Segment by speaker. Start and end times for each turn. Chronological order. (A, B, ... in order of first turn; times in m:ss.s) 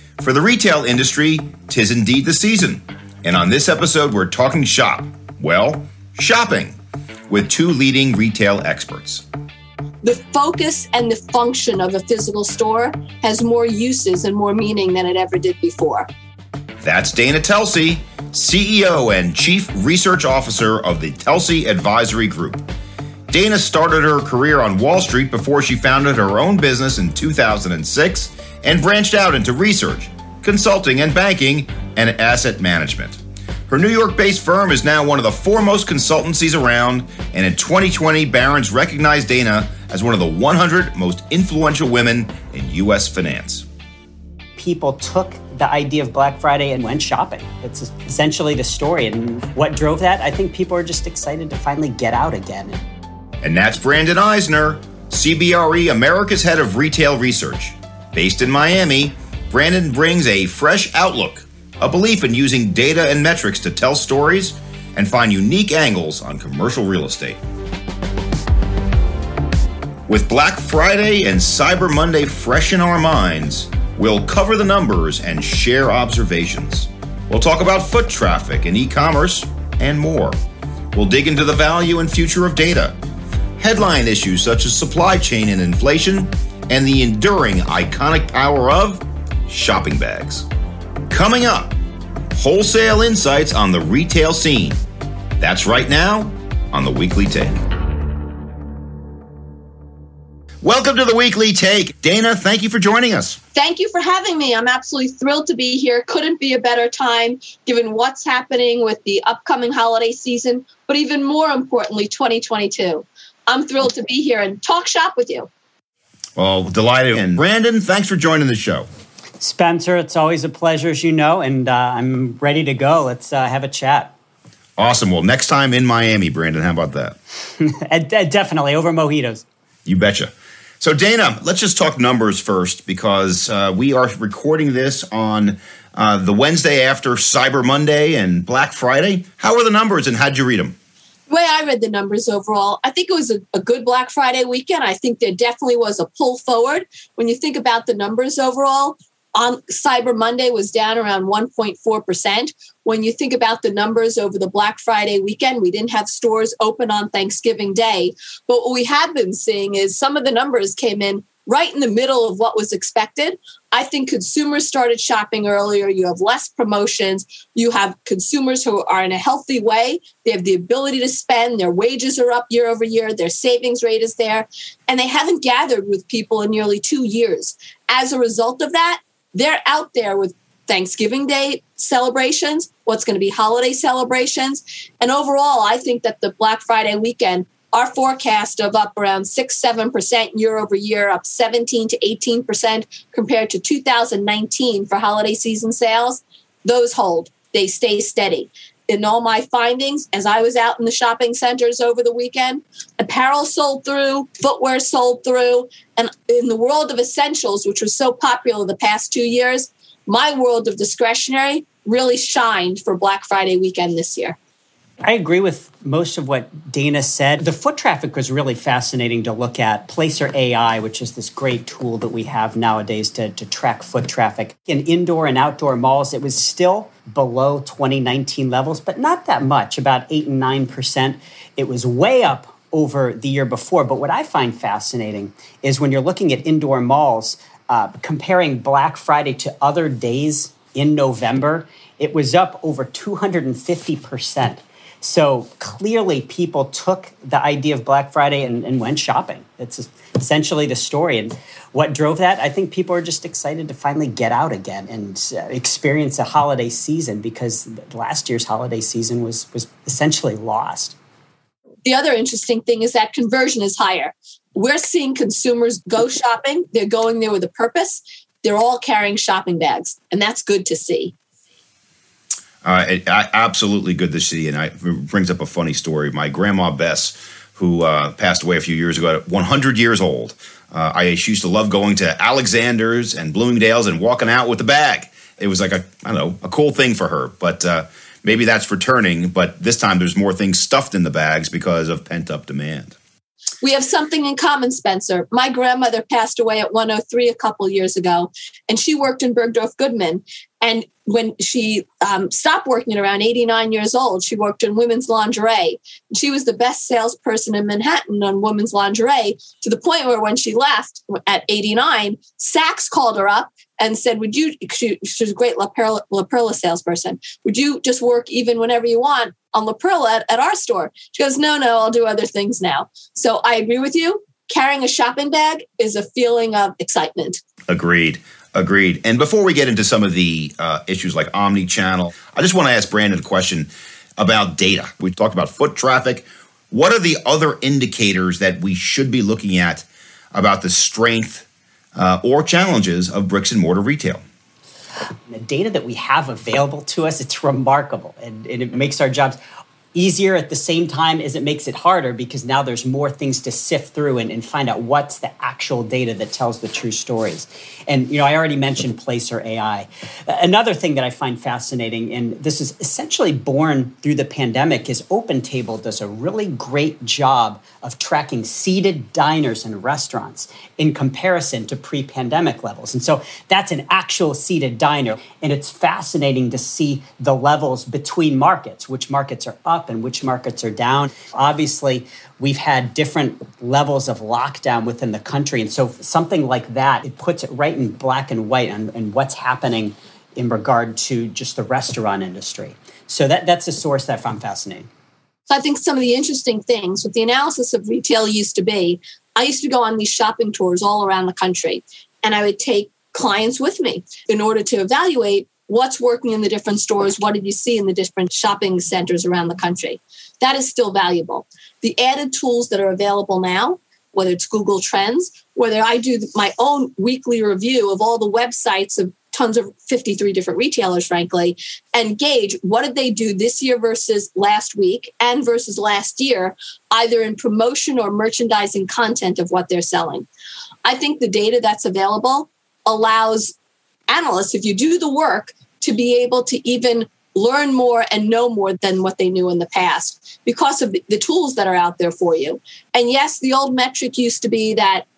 0:00.2-0:06.8 A
0:07.3-0:09.2 A
0:10.0-0:16.1 B
0:16.8-0:22.6 A
0:23.3-0:43.6 A
0:44.6-0:52.8 C
0:53.4-1:07.4 A
1:10.1-1:20.3 A
1:20.9-1:23.0 A
1:23.6-1:30.4 A
1:31.1-1:31.7 A
1:32.3-1:34.8 A
1:35.4-1:37.6 A
1:40.6-1:43.4 A
1:43.5-1:55.5 B
1:56.4-1:58.9 A
1:59.4-2:04.1 C
2:04.8-2:07.2 A
2:07.6-2:09.4 C
2:09.8-2:20.7 A
2:21.3-3:34.4 B
3:35.0-4:21.0 C
4:21.8-4:31.1 B
4:32.6-4:52.9 A
4:53.6-5:27.4 B
5:27.7-5:44.2 A
5:45.3-5:49.4 C
5:49.9-6:34.9 C
6:35.5-7:10.3 B
7:10.8-7:13.5 B
7:14.1-7:25.0 B